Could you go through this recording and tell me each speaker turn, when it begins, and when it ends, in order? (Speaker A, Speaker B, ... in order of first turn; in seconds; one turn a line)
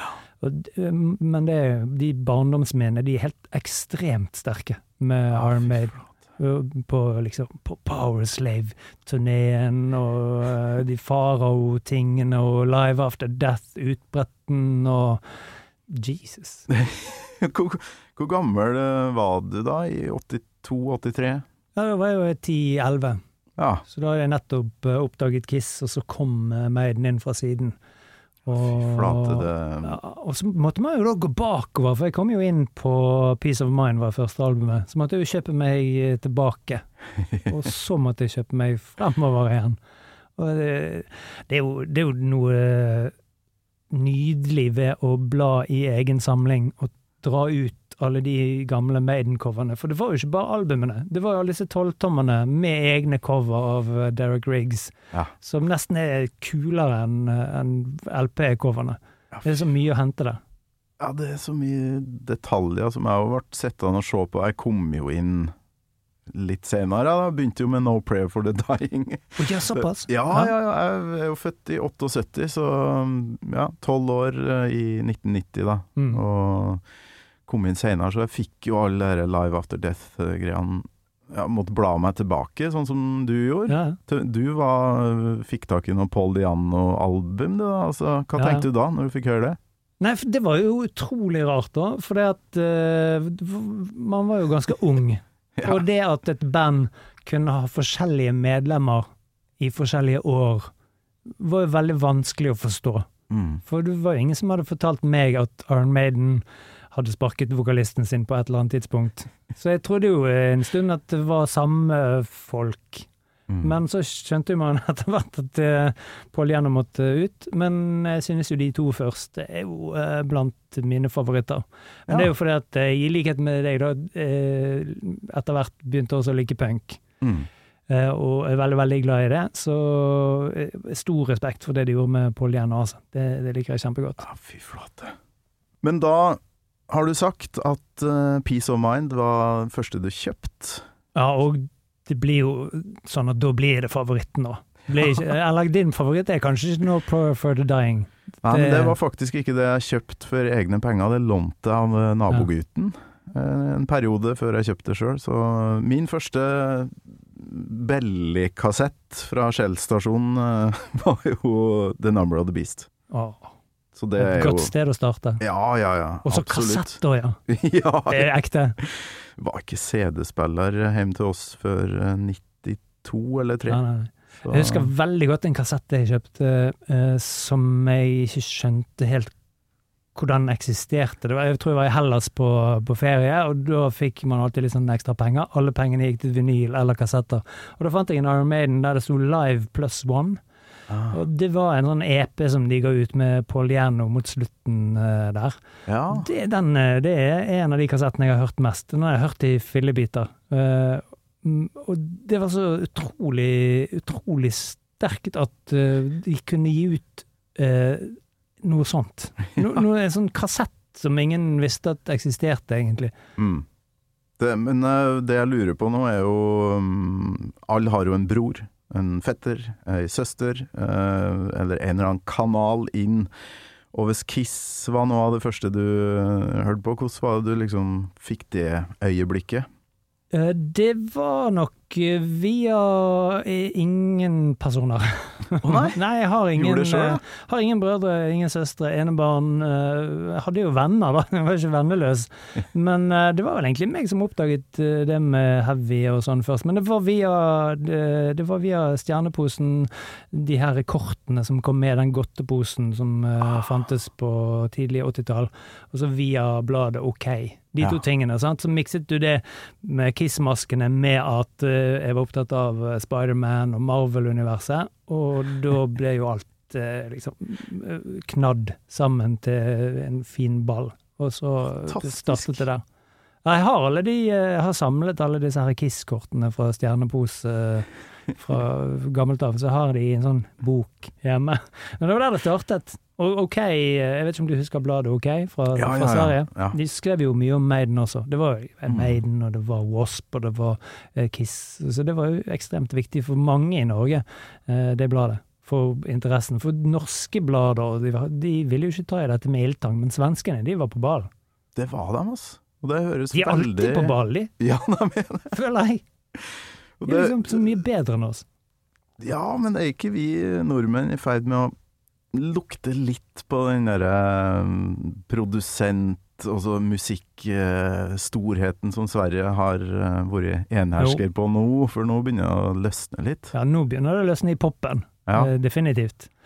Speaker A: 0.4-15.2
Speaker B: 5.3-6.1
Speaker A: 15.9-16.6
Speaker B: 16.7-21.4
Speaker A: 21.8-23.2
Speaker B: 23.6-23.8
Speaker A: 23.9-27.8
Speaker A: 28.5-36.9
Speaker B: 28.5-30.0
Speaker A: 37.5-39.8
Speaker A: 40.4-43.1
Speaker A: 43.9-60.4
Speaker B: 59.3-59.6
Speaker B: 61.0-65.5
Speaker B: 66.3-76.8
Speaker A: 69.4-70.5
Speaker A: 76.0-76.2
Speaker B: 77.5-89.6
Speaker A: 83.7-84.0
Speaker A: 88.3-88.7
Speaker A: 90.0-99.1
Speaker B: 95.5-95.8
Speaker A: 99.6-100.7
Speaker A: 101.4-103.1
Speaker B: 103.3-103.6
Speaker A: 103.7-113.1
Speaker B: 113.5-113.7
Speaker A: 113.6-127.0
Speaker B: 127.2-127.5
Speaker A: 127.9-134.2
Speaker B: 134.2-135.2
Speaker B: 135.8-140.8
Speaker A: 141.1-148.9
Speaker B: 148.4-162.9
Speaker A: 163.1-163.5
Speaker B: 163.9-164.7
Speaker A: 164.2-165.4
Speaker B: 165.4-168.3
Speaker A: 166.2-167.4
Speaker A: 168.1-168.8
Speaker B: 168.8-173.8
Speaker A: 173.7-179.3
Speaker B: 174.4-174.9
Speaker A: 180.1-190.4
Speaker B: 190.9-191.2
Speaker A: 191.1-195.6
Speaker B: 195.9-196.2
Speaker A: 196.1-213.1
Speaker B: 213.4-213.7
Speaker B: 214.4-223.3
Speaker B: 223.9-229.7
Speaker A: 230.3-272.8
Speaker B: 235.6-236.0
Speaker B: 236.5-237.2
Speaker B: 271.9-272.6
Speaker A: 273.4-301.3
Speaker B: 285.7-286.8
Speaker B: 288.9-289.2
Speaker B: 301.7-305.5
Speaker A: 303.3-304.5
Speaker A: 305.5-306.0
Speaker B: 307.0-307.8
Speaker A: 307.1-308.4
Speaker B: 309.2-311.7
Speaker B: 312.3-323.5
Speaker A: 323.5-326.3